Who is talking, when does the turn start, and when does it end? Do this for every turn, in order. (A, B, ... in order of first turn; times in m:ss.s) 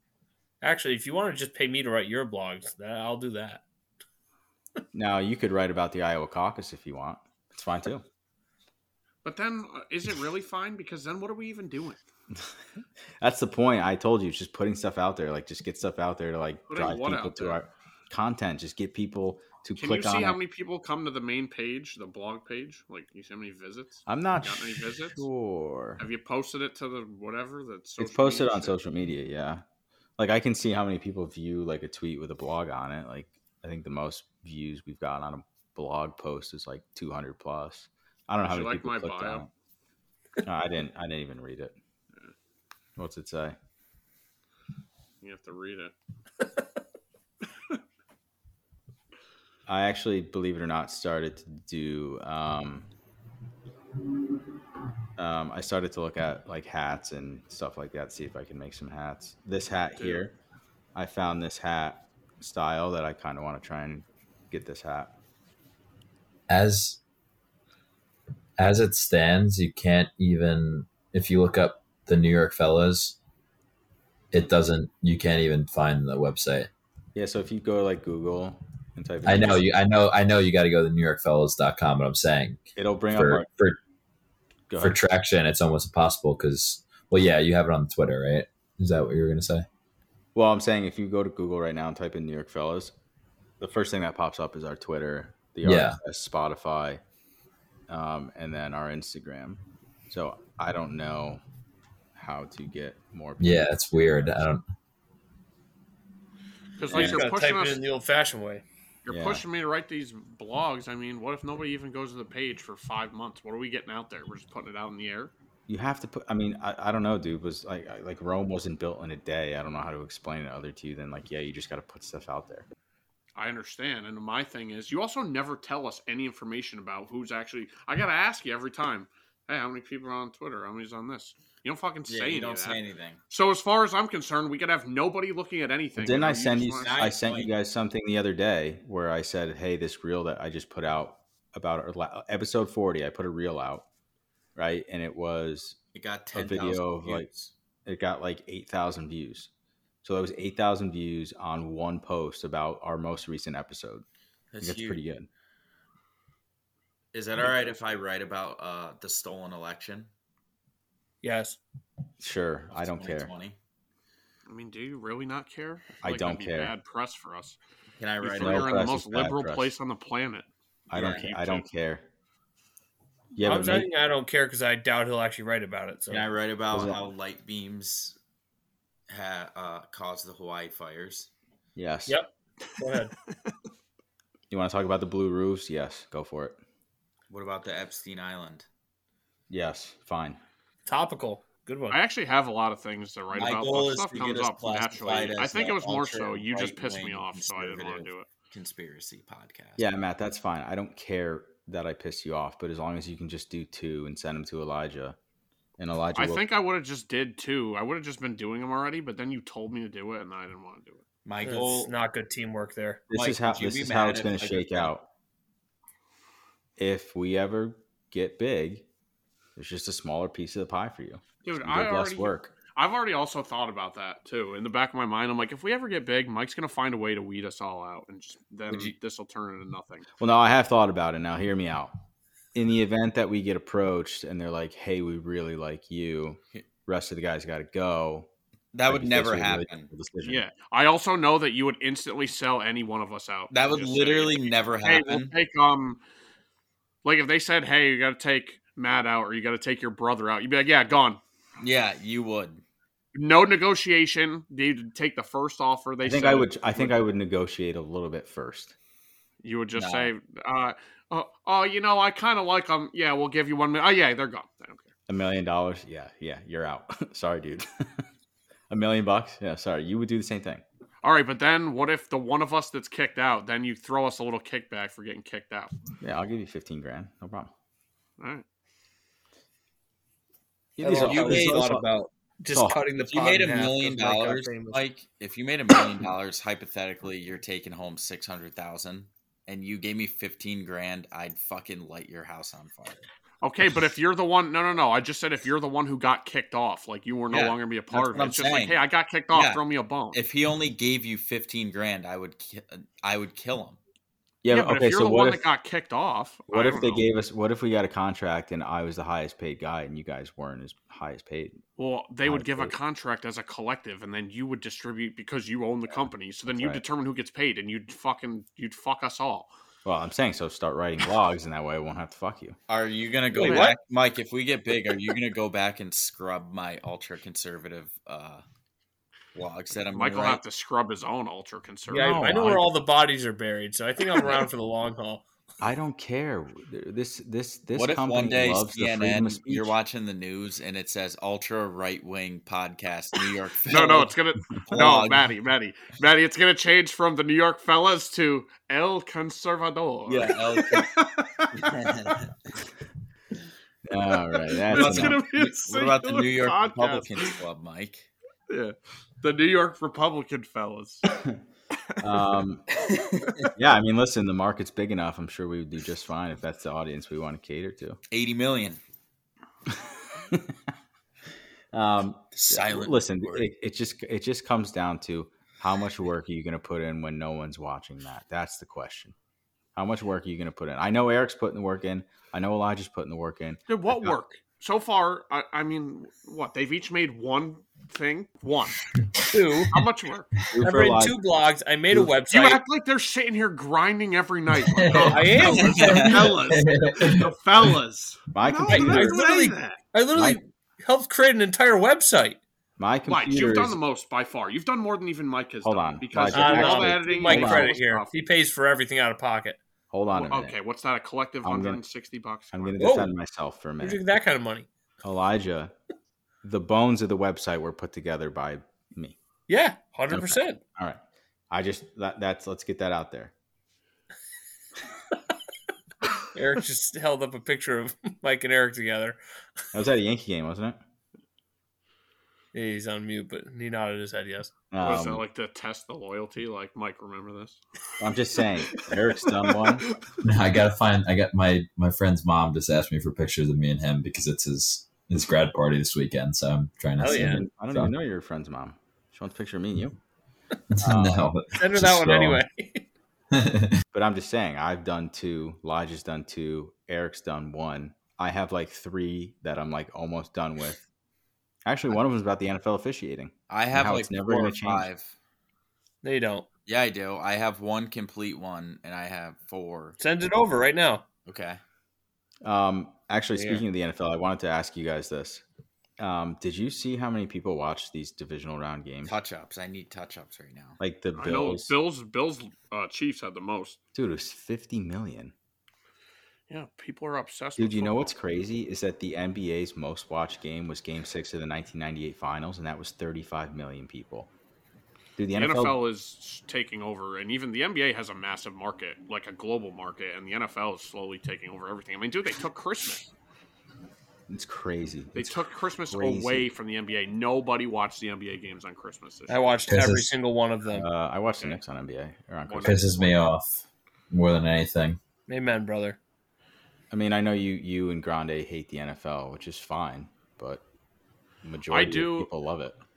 0:00.6-0:03.6 A
0:04.9-0:08.0 B
0:09.2-0:12.0 C
0:13.2-0:20.4 B
0:16.7-0:17.6 C
0:19.8-0:25.3 C
0:24.1-0:26.0 B
0:26.0-0:28.7 C
0:28.0-0:29.6 B
0:30.2-0:39.5 B
0:38.5-0:39.4 C
0:40.4-0:41.8 B
0:43.0-0:43.6 B
0:45.2-0:45.9 C
0:49.7-0:52.9 B
0:55.2-1:00.4 B
1:00.0-1:00.2 C
1:00.9-1:05.1 B
1:06.5-1:07.0 D
1:08.6-1:13.2 D
1:14.3-1:16.7 D
1:17.1-1:19.6 B
1:19.2-1:23.8 D
1:22.8-1:23.5 B
1:24.7-1:25.0 B
1:24.8-1:29.6 D
1:30.3-1:32.9 B
1:33.6-1:37.0 B
1:35.6-1:36.0 D
1:37.9-1:41.4 B
1:42.1-1:44.4 B
1:43.4-1:44.6 D
1:46.8-1:47.8 C
1:46.9-1:48.6 A
1:46.9-1:47.2 B
1:49.0-1:55.3 C
1:49.1-1:49.4 B
1:55.7-2:02.6 B
2:03.4-2:17.0 C
2:12.1-2:13.2 E
2:16.0-2:23.8 B
2:16.8-2:17.5 E
2:24.6-2:25.8 B
2:25.9-2:27.5 E
2:26.3-2:27.3 B
2:27.8-2:29.5 B
2:30.0-2:34.0 B
2:34.5-2:35.0 E
2:34.6-2:35.3 B
2:37.1-2:40.1 E
2:41.2-2:41.6 A
2:42.2-2:43.3 B
2:42.7-2:43.6 E
2:44.5-2:47.6 C
2:46.0-2:46.7 B
2:48.0-2:48.7 E
2:48.2-2:51.6 C
2:48.4-2:49.7 B
2:50.9-2:52.0 B
2:51.0-2:51.2 E
2:53.3-2:53.9 B
2:53.4-2:56.3 A
2:56.1-2:58.2 E
2:56.7-2:57.1 B
2:59.1-3:01.3 E
3:01.8-3:02.2 B
3:02.1-3:03.1 A
3:04.5-3:06.6 B
3:07.3-3:08.7 E
3:09.5-3:10.4 B
3:10.8-3:12.0 A
3:11.9-3:18.2 C
3:13.3-3:19.8 E
3:19.8-3:25.2 B
3:25.8-3:26.4 B
3:26.2-3:31.0 C
3:31.2-3:31.9 E
3:31.4-3:33.0 A
3:33.1-3:35.1 B
3:33.1-3:34.9 E
3:36.8-3:38.8 B
3:39.6-3:42.5 B
3:41.4-3:50.0 C
3:48.7-3:48.9 E
3:50.2-3:51.9 B
3:52.5-3:58.3 B
3:58.7-3:59.9 E
3:58.9-4:00.4 B
4:00.2-4:06.0 C
4:03.5-4:05.3 E
4:07.0-4:11.2 C
4:11.6-4:12.6 E
4:13.1-4:16.9 C
4:16.0-4:18.7 B
4:19.4-4:24.9 C
4:19.8-4:20.1 E
4:25.1-4:28.0 B
4:28.7-4:30.6 B
4:31.0-4:35.7 C
4:36.0-4:37.5 B
4:38.2-4:38.4 C
4:40.8-4:41.9 B
4:40.8-4:44.8 A
4:41.0-4:41.6 E
4:42.5-4:42.8 B
4:43.0-4:53.0 E
4:53.4-5:00.2 C
4:57.3-4:59.6 E
5:00.1-5:03.8 E
5:04.4-5:05.4 B
5:04.5-5:07.0 C
5:06.5-5:11.6 B
5:11.8-5:19.5 C
5:12.2-5:12.8 B
5:16.5-5:16.8 B
5:19.8-5:22.6 B
5:22.7-5:28.4 E
5:23.3-5:23.8 A
5:23.4-5:23.7 C
5:29.3-5:30.4 E
5:29.9-5:32.6 C
5:31.9-5:35.2 A
5:31.9-5:32.7 B
5:35.6-5:39.8 B
5:37.7-5:44.1 E
5:43.7-5:52.1 C
5:44.6-5:45.3 E
5:50.1-5:50.9 E
5:51.5-5:52.3 E
5:53.8-5:55.2 B
5:54.5-5:57.4 C
5:54.7-5:58.1 E
5:58.5-6:01.0 C
6:02.0-6:02.6 B
6:03.0-6:03.5 E
6:03.5-6:08.0 B
6:08.1-6:08.8 E
6:09.7-6:10.6 B
6:11.7-6:19.1 B
6:12.3-6:13.5 E
6:19.8-6:24.2 B
6:23.7-6:28.8 C
6:29.3-6:29.8 A
6:29.7-6:30.3 C
6:30.5-6:31.2 B
6:30.6-6:32.6 A
6:32.3-6:39.8 C
6:34.7-6:37.3 D
6:35.0-6:36.2 A
6:35.5-6:36.4 E
6:38.3-6:39.2 B
6:38.7-6:42.4 A
6:40.1-6:40.4 B
6:42.8-6:43.8 B
6:43.1-6:48.1 C
6:45.6-6:47.7 B
6:46.3-6:49.6 A
6:49.9-6:50.6 B
6:50.1-6:52.8 C
6:51.4-6:51.8 B
6:52.5-6:54.0 B
6:52.8-6:53.1 A
6:53.8-6:54.7 A
6:55.0-6:55.7 B
6:56.4-6:59.2 B
6:59.5-7:00.6 A
7:00.1-7:03.3 B
7:06.3-7:09.2 A
7:09.7-7:10.8 B
7:12.5-7:14.5 A
7:14.7-7:15.2 B
7:14.8-7:17.6 C
7:18.0-7:19.9 B
7:20.2-7:27.9 D
7:27.0-7:27.4 A
7:27.1-7:30.0 B
7:30.7-7:32.4 D
7:30.8-7:31.3 B
7:31.5-7:32.9 A
7:33.3-7:33.8 D
7:33.9-7:40.8 B
7:41.6-7:44.9 B
7:43.5-7:45.1 E
7:46.0-7:46.5 A
7:46.6-7:50.0 E
7:50.0-7:51.0 A
7:51.2-7:51.6 E
7:52.4-7:55.4 B
7:53.3-7:53.6 A
7:56.0-7:59.2 B
7:59.0-8:00.8 E
8:00.8-8:01.8 B
8:01.2-8:03.8 C
8:03.9-8:05.3 B
8:06.5-8:08.1 C
8:07.6-8:14.3 B
8:15.2-8:15.8 B
8:15.3-8:23.1 C
8:24.3-8:26.5 B
8:25.1-8:29.4 C
8:29.3-8:30.9 A
8:29.7-8:30.1 D
8:30.7-8:33.2 B
8:32.5-8:33.0 C
8:32.6-8:35.0 D
8:35.3-8:36.0 A
8:36.9-8:40.6 B
8:41.4-8:42.8 B
8:41.7-8:42.3 C